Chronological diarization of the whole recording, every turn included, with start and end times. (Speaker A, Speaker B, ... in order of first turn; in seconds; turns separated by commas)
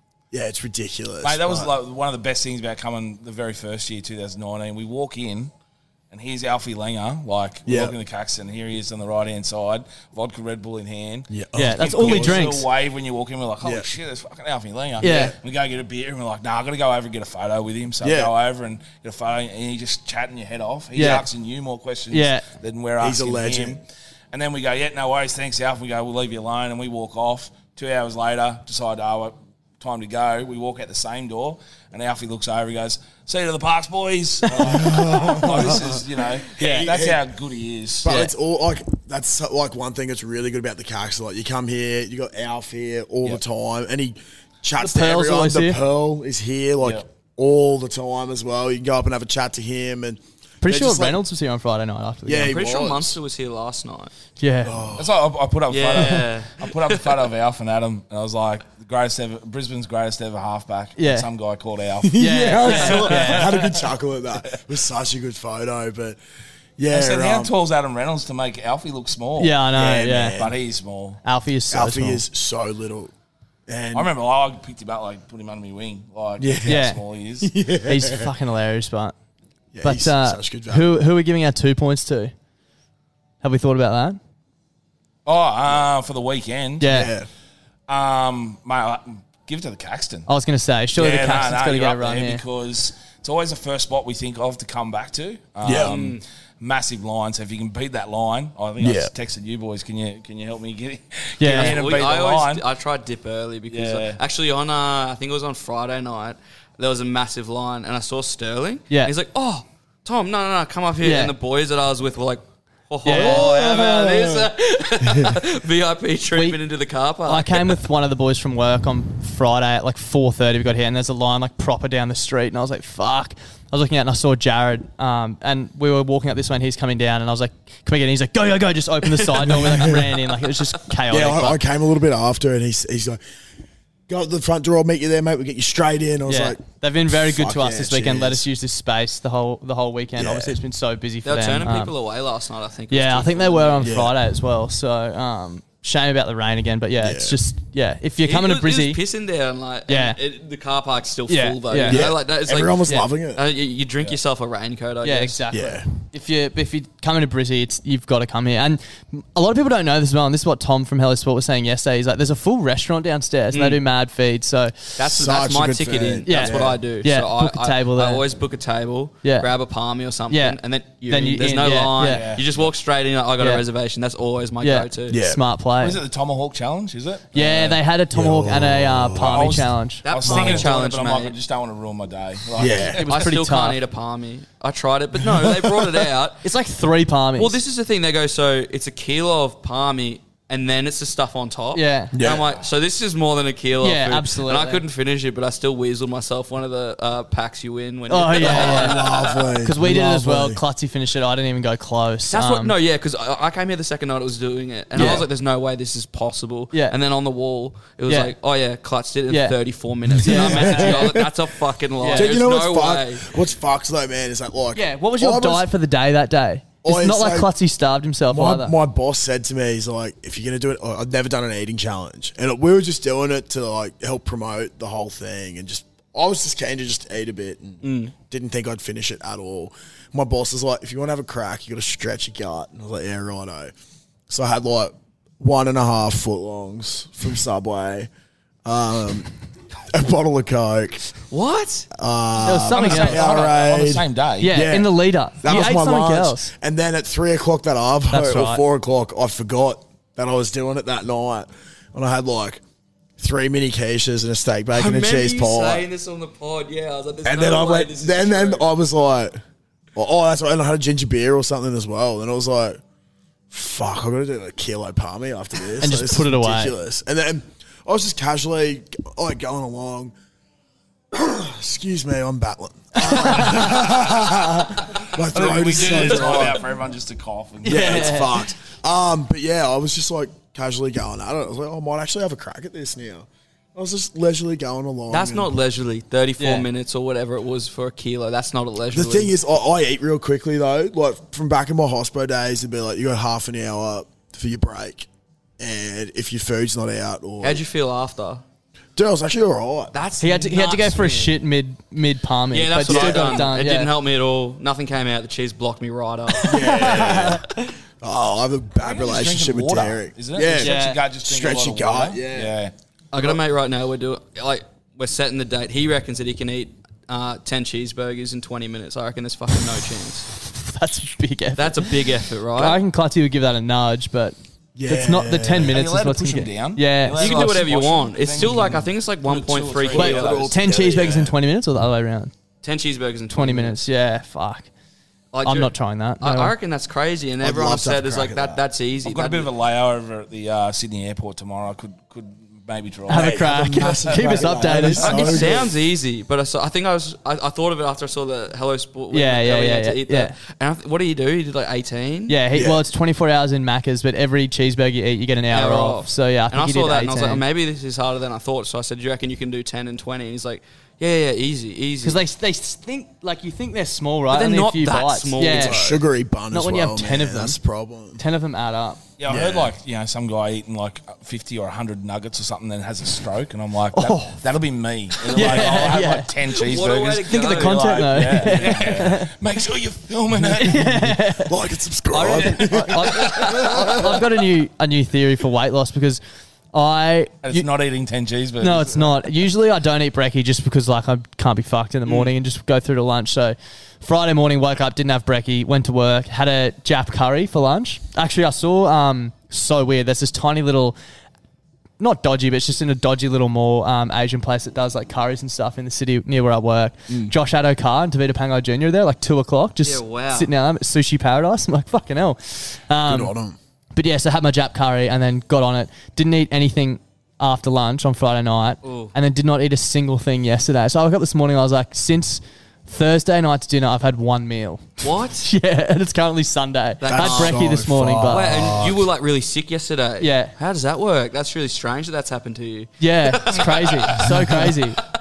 Speaker A: 0.3-1.7, Speaker B: 1.2-5.5, Speaker B: 6.1-38.3, Speaker A: 7.7-8.0, Speaker A: 11.3-12.5, Speaker C: 11.6-12.7, Speaker A: 13.6-13.9, Speaker C: 15.0-15.3, Speaker A: 15.0-15.3, Speaker A: 18.0-18.3, Speaker C: 20.9-21.3, Speaker C: 22.1-22.5, Speaker A: 23.0-23.8, Speaker A: 34.5-37.2, Speaker A: 38.0-51.2, Speaker C: 44.8-45.8, Speaker C: 50.6-52.6, Speaker A: 52.3-53.2, Speaker D: 52.5-54.1, Speaker C: 54.4-54.8, Speaker A: 54.6-55.2, Speaker B: 55.0-63.9, Speaker D: 55.7-57.2, Speaker C: 61.0-61.3, Speaker A: 62.0-66.2, Speaker C: 62.2-63.5, Speaker A: 66.8-67.5, Speaker B: 66.9-69.6, Speaker C: 69.4-70.4, Speaker A: 69.7-70.6, Speaker B: 70.4-71.2, Speaker C: 71.2-72.2, Speaker A: 71.7-73.1, Speaker A: 73.7-74.1, Speaker B: 73.9-77.5, Speaker A: 76.4-78.3, Speaker C: 76.7-77.0, Speaker C: 77.9-79.1, Speaker A: 79.7-81.0, Speaker C: 79.8-82.3, Speaker C: 83.4-84.2, Speaker B: 85.3-86.9, Speaker C: 86.8-87.1, Speaker A: 86.8-87.3, Speaker B: 87.9-90.3, Speaker C: 90.3-92.4, Speaker B: 91.0-102.6, Speaker A: 95.6-95.9, Speaker D: 95.8-96.2, Speaker A: 98.8-99.1, Speaker C: 101.4-101.8, Speaker D: 101.4-117.8, Speaker B: 103.7-104.2, Speaker C: 111.0-111.3, Speaker C: 113.0-113.5, Speaker A: 113.2-114.5, Speaker A: 115.0-115.4, Speaker C: 117.3-131.6, Speaker D: 129.2-129.6, Speaker A: 129.4-130.2, Speaker A: 131.1-133.2, Speaker A: 134.1-138.5, Speaker C: 136.3-141.9, Speaker A: 140.2-140.6, Speaker D: 141.2-143.9, Speaker C: 142.9-149.0, Speaker A: 143.8-144.2, Speaker A: 147.0-147.4, Speaker D: 148.2-155.4, Speaker C: 149.9-150.2, Speaker C: 151.3-152.1, Speaker A: 151.8-153.4, Speaker C: 155.0-165.0, Speaker A: 155.5-155.9, Speaker D: 163.5-163.8, Speaker D: 165.0-175.2, Speaker A: 165.0-166.8, Speaker C: 166.3-168.2, Speaker C: 169.2-169.5, Speaker C: 170.3-172.3, Speaker B: 172.0-172.8, Speaker C: 174.6-176.0, Speaker A: 175.1-175.4, Speaker B: 175.8-177.8, Speaker C: 177.3-180.7, Speaker A: 178.1-179.6, Speaker B: 179.3-183.2, Speaker D: 180.1-181.3, Speaker A: 182.5-183.0, Speaker D: 182.9-186.4, Speaker C: 183.0-183.8, Speaker A: 185.2-186.1, Speaker C: 186.4-187.6, Speaker D: 187.4-199.6, Speaker C: 191.7-192.2, Speaker A: 192.1-192.5, Speaker B: 192.2-192.7, Speaker C: 193.8-194.8, Speaker C: 198.1-202.8, Speaker A: 198.3-200.6, Speaker D: 202.3-213.3, Speaker C: 204.9-205.2, Speaker A: 205.0-205.2, Speaker C: 208.1-208.3, Speaker C: 209.3-209.6, Speaker A: 210.1-211.3, Speaker C: 210.2-211.2, Speaker C: 212.0-212.4, Speaker A: 212.1-215.7, Speaker C: 214.8-218.8, Speaker A: 216.8-217.5, Speaker A: 218.3-233.7, Speaker D: 227.8-228.1, Speaker A: 234.3-238.1, Speaker A: 238.7-239.3, Speaker A: 239.9-241.1, Speaker D: 241.3-241.9, Speaker A: 241.9-252.6, Speaker C: 242.4-243.5, Speaker B: 242.7-244.7, Speaker C: 244.4-246.5, Speaker C: 248.1-248.6, Speaker A: 253.2-255.9, Speaker D: 254.7-258.7, Speaker A: 257.2-259.4, Speaker A: 260.0-262.8, Speaker A: 263.5-270.1, Speaker C: 265.8-266.7, Speaker A: 271.1-276.7, Speaker B: 273.4-274.0, Speaker B: 274.8-278.3, Speaker D: 275.8-276.6, Speaker C: 277.6-278.4, Speaker A: 277.6-285.6, Speaker D: 285.1-289.3, Speaker C: 286.4-286.7, Speaker A: 288.9-295.1, Speaker A: 295.6-297.6, Speaker D: 297.4-298.4, Speaker A: 299.0-299.9, Speaker D: 299.9-301.4, Speaker C: 300.2-303.9, Speaker D: 302.5-307.0, Speaker B: 302.9-303.2, Speaker A: 302.9-303.3, Speaker C: 306.3-307.7, Speaker A: 306.4-307.5, Speaker A: 308.0-312.6, Speaker B: 308.8-312.7, Speaker C: 310.6-311.0, Speaker D: 313.1-320.3, Speaker A: 313.1-313.4, Speaker C: 320.4-321.9, Speaker D: 321.6-322.8, Speaker C: 322.6-327.6, Speaker A: 324.8-325.8, Speaker B: 325.6-330.6, Speaker D: 327.2-330.5, Speaker C: 329.9-332.3, Speaker A: 330.2-331.3, Speaker D: 332.6-333.8, Speaker C: 333.3-334.7, Speaker D: 335.3-339.5, Speaker C: 335.4-336.5, Speaker A: 337.4-338.6, Speaker B: 339.0-345.4, Speaker C: 343.1-345.5, Speaker A: 343.1-345.7, Speaker D: 345.0-352.4, Speaker C: 349.1-350.4, Speaker C: 352.3-357.4, Speaker A: 352.5-352.9, Speaker D: 355.5-362.2, Speaker C: 362.0-365.8, Speaker D: 364.3-366.0, Speaker A: 365.4-368.2, Speaker C: 366.5-367.6, Speaker C: 368.2-369.0, Speaker B: 369.2-381.1, Speaker A: 369.3-369.7, Speaker C: 373.9-374.4, Speaker C: 375.3-376.3, Speaker D: 376.5-378.3, Speaker C: 377.3-379.3, Speaker C: 380.6-381.5, Speaker A: 380.6-384.2, Speaker C: 382.1-386.2, Speaker B: 382.2-383.8, Speaker C: 386.7-387.7, Speaker B: 387.4-389.2, Speaker C: 388.6-401.0, Speaker C: 402.0-413.4, Speaker A: 407.1-407.3, Speaker D: 409.8-410.5, Speaker A: 413.1-413.6, Speaker C: 413.9-428.5, Speaker D: 418.8-419.1, Speaker D: 425.0-425.5, Speaker D: 427.0-427.6, Speaker A: 427.0-429.1, Speaker D: 428.3-434.9, Speaker C: 430.2-430.5, Speaker C: 433.0-435.0